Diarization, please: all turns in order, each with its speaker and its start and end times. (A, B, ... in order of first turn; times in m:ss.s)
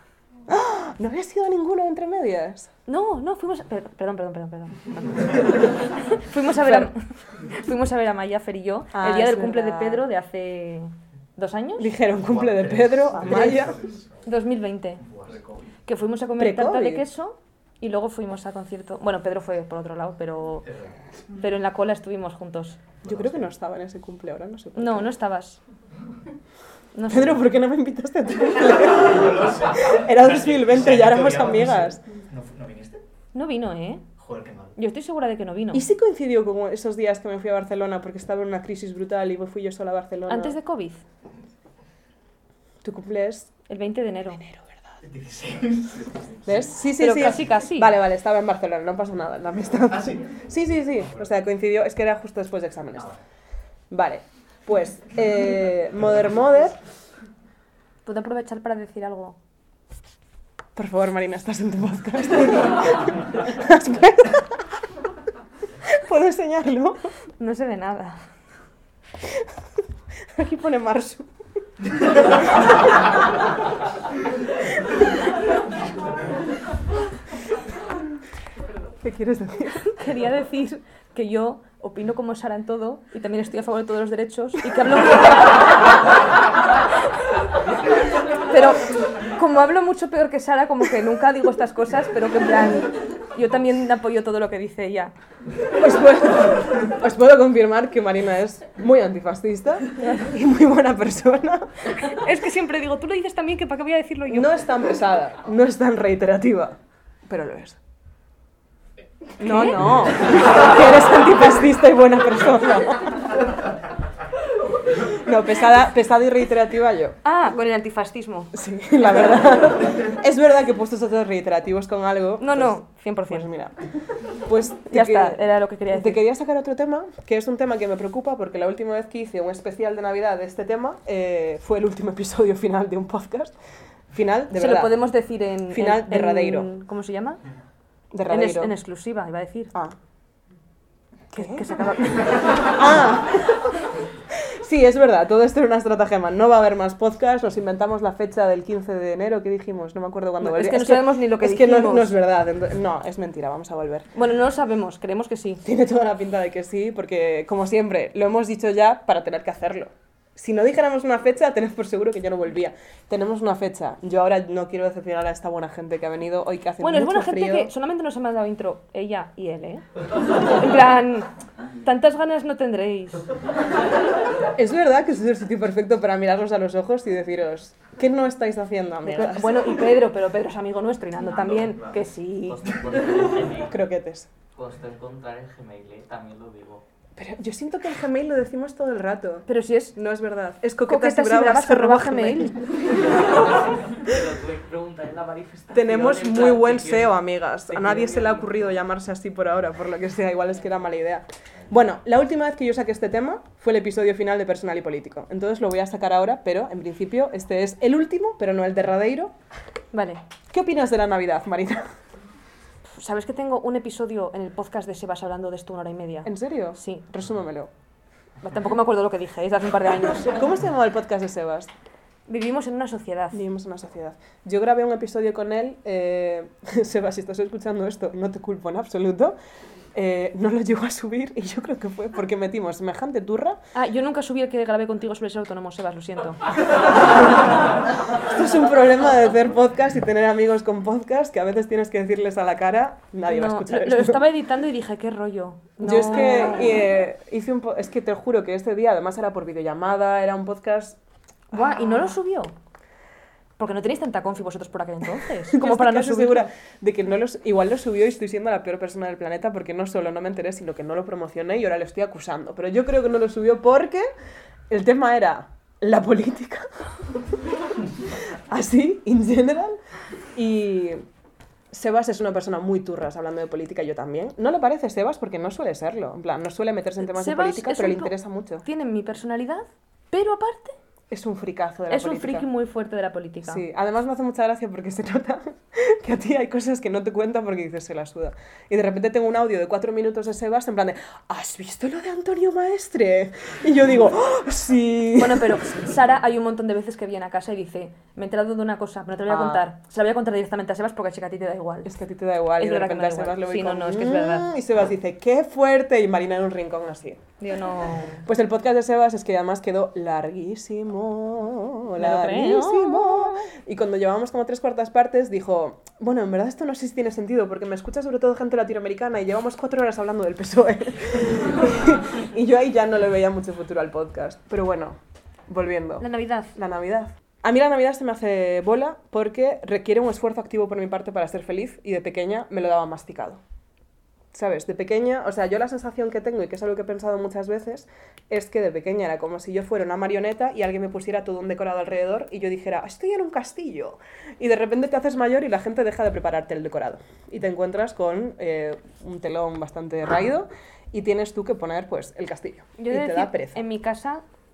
0:00.5-0:02.7 A
0:02.9-0:11.9 B
0:06.6-0:06.9 A
0:08.9-0:10.0 A
0:11.8-0:13.9 A
0:14.2-0:15.0 B
0:15.9-0:20.7 B
0:16.4-0:17.1 A
0:21.4-0:22.8 B
0:23.0-0:25.1 A
0:24.8-0:25.6 B
0:26.9-0:27.4 B
0:27.1-0:32.0 A
0:30.7-0:31.6 C
0:32.3-0:33.0 C
0:33.3-0:34.0 B
0:34.2-0:34.7 C
0:34.8-0:35.9 B
0:35.7-0:40.6 A
0:40.3-0:41.0 B
0:42.8-0:43.5 A
0:43.7-0:44.4 B
0:44.3-0:45.0 A
0:45.3-0:45.8 C
0:46.4-0:53.2 A
0:47.0-0:47.9 B
0:53.9-0:56.8 A
0:58.0-0:59.4 B
1:00.8-1:04.6 A
1:05.8-1:07.0 A
1:07.4-1:08.2 B
1:10.3-1:11.3 A
1:19.0-1:19.9 A
1:19.9-1:25.8 B
1:28.4-1:35.1 B
1:35.8-1:41.7 A
1:42.0-1:44.5 B
1:44.3-1:46.8 A
1:47.3-1:47.8 A
1:49.4-1:53.4 A
1:49.4-1:49.9 B
1:55.1-1:57.2 A
1:57.2-1:58.5 B
1:58.5-2:03.8 A
2:02.4-2:03.5 B
2:04.4-2:05.4 A
2:04.9-2:06.2 B
2:05.9-2:13.6 A
2:14.1-2:15.0 A
2:14.5-2:17.4 B
2:15.7-2:16.7 A
2:18.1-2:18.7 A
2:18.3-2:19.7 B
2:21.3-2:21.7 A
2:21.4-2:22.7 B
2:22.6-2:23.6 A
2:24.3-2:34.1 A
2:30.4-2:32.2 B
2:34.1-2:35.6 B
2:35.6-2:47.7 A
2:46.8-2:49.8 B
2:50.5-2:51.3 B
2:51.8-2:53.3 B
2:54.6-2:59.7 A
2:59.0-3:02.6 B
3:02.5-3:03.8 D
3:03.6-3:04.3 A
3:04.6-3:06.8 D
3:07.2-3:12.6 A
3:09.5-3:10.0 B
3:10.8-3:12.6 B
3:12.9-3:17.2 D
3:15.7-3:29.3 A
3:17.7-3:18.6 D
3:29.9-3:30.2 B
3:30.5-3:31.9 A
3:32.9-3:37.1 B
3:36.2-3:37.7 A
3:38.4-3:40.4 B
3:40.3-3:41.7 A
3:42.3-3:43.4 B
3:43.3-3:49.4 A
3:50.0-3:53.6 A
3:53.8-3:56.4 B
3:58.2-4:04.2 A
4:03.3-4:06.8 B
4:05.8-4:11.0 A
4:11.5-4:12.5 B
4:11.7-4:12.0 A
4:13.6-4:16.5 B
4:15.5-4:24.1 A
4:24.7-4:26.7 A
4:28.5-4:29.8 A
4:30.4-4:31.0 A
4:31.7-4:38.6 A
4:37.0-4:40.8 B
4:41.1-4:42.5 A
4:41.9-4:43.6 B
4:43.4-4:55.7 A
4:55.2-5:01.9 B
4:59.3-4:59.6 A
5:01.8-5:07.2 A
5:02.6-5:04.5 B
5:07.4-5:08.2 B
5:08.2-5:33.4 A
5:12.0-5:13.5 B
5:26.0-5:26.5 B
5:34.3-5:53.6 A
5:52.8-5:54.2 B